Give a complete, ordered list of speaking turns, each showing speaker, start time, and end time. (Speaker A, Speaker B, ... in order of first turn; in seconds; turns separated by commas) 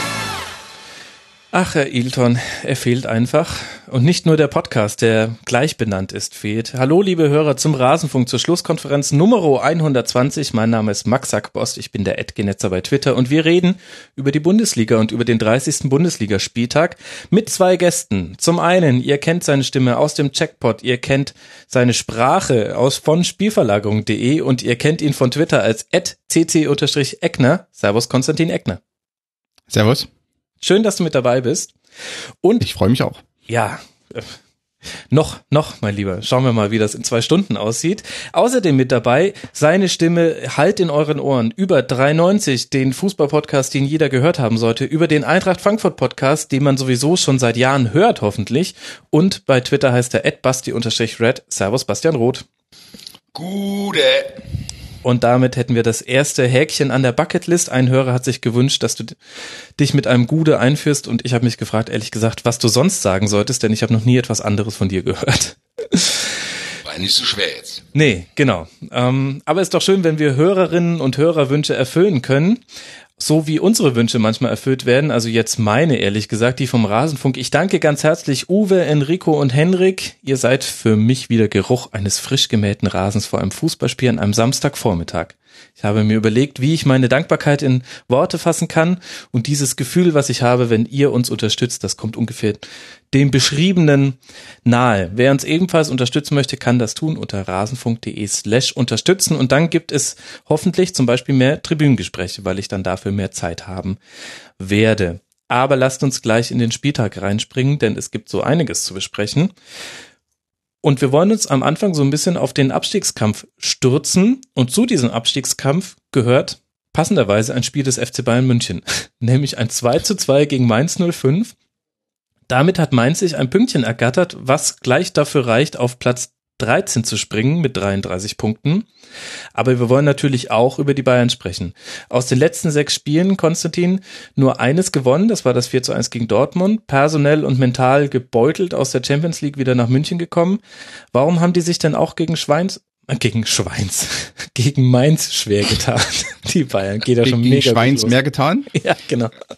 Speaker A: 1.5-28.8, Speaker B: 29.7-30.1, Speaker A: 30.6-31.7, Speaker B: 32.6-33.2, Speaker A: 33.5-34.4, Speaker A: 35.1-52.5, Speaker C: 53.4-54.4, Speaker A: 55.0-59.2, Speaker A: 59.8-66.3, Speaker C: 66.8-67.8, Speaker A: 68.0-72.6, Speaker A: 73.2-104.0, Speaker A: 104.6-109.5, Speaker A: 110.8-121.5, Speaker A: 122.5-128.9, Speaker A: 129.6-140.6, Speaker A: 141.1-148.2, Speaker B: 147.2-148.7, Speaker A: 148.7-149.3